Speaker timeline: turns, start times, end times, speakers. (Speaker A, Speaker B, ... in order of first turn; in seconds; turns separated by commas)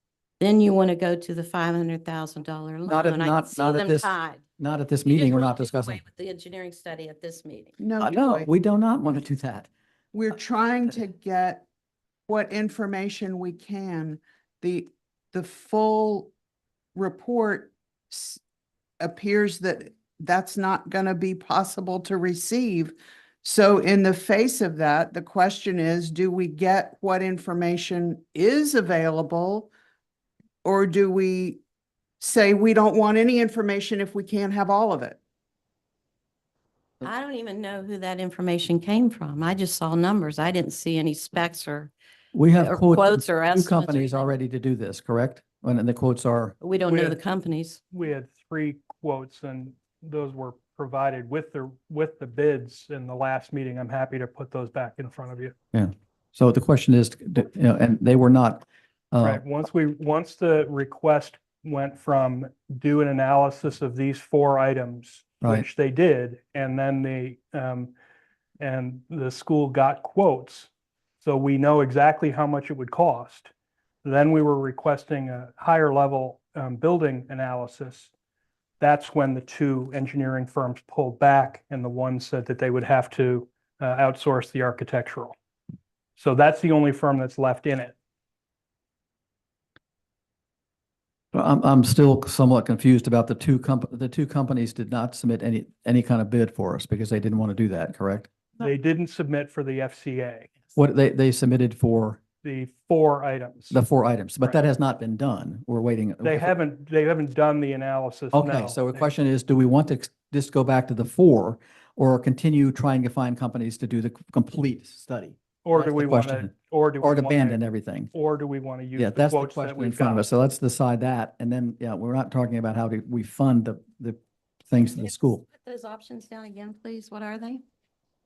Speaker A: 0.4-4.4, Speaker B: 2.9-6.0, Speaker A: 5.0-7.8, Speaker C: 7.8-8.5, Speaker B: 8.0-9.7, Speaker C: 10.1-11.6, Speaker C: 12.3-16.3, Speaker C: 16.9-18.4, Speaker C: 19.0-29.7, Speaker C: 30.6-31.6, Speaker C: 32.2-35.2, Speaker A: 37.0-41.9, Speaker B: 42.3-46.5, Speaker A: 42.5-44.3, Speaker A: 46.6-47.8, Speaker D: 46.9-47.2, Speaker D: 47.9-55.5, Speaker B: 55.7-59.4, Speaker D: 59.2-67.9, Speaker D: 68.6-70.7, Speaker D: 71.2-73.5, Speaker D: 74.0-78.1, Speaker D: 78.8-85.3, Speaker D: 86.2-87.9, Speaker B: 91.3-98.3, Speaker D: 98.6-100.5, Speaker B: 100.7-102.2, Speaker D: 102.4-103.8, Speaker B: 103.7-106.5, Speaker D: 106.2-109.0, Speaker B: 108.3-118.1, Speaker D: 115.6-117.6, Speaker D: 118.1-120.3, Speaker B: 119.0-124.2, Speaker B: 124.7-125.4, Speaker A: 125.5-127.6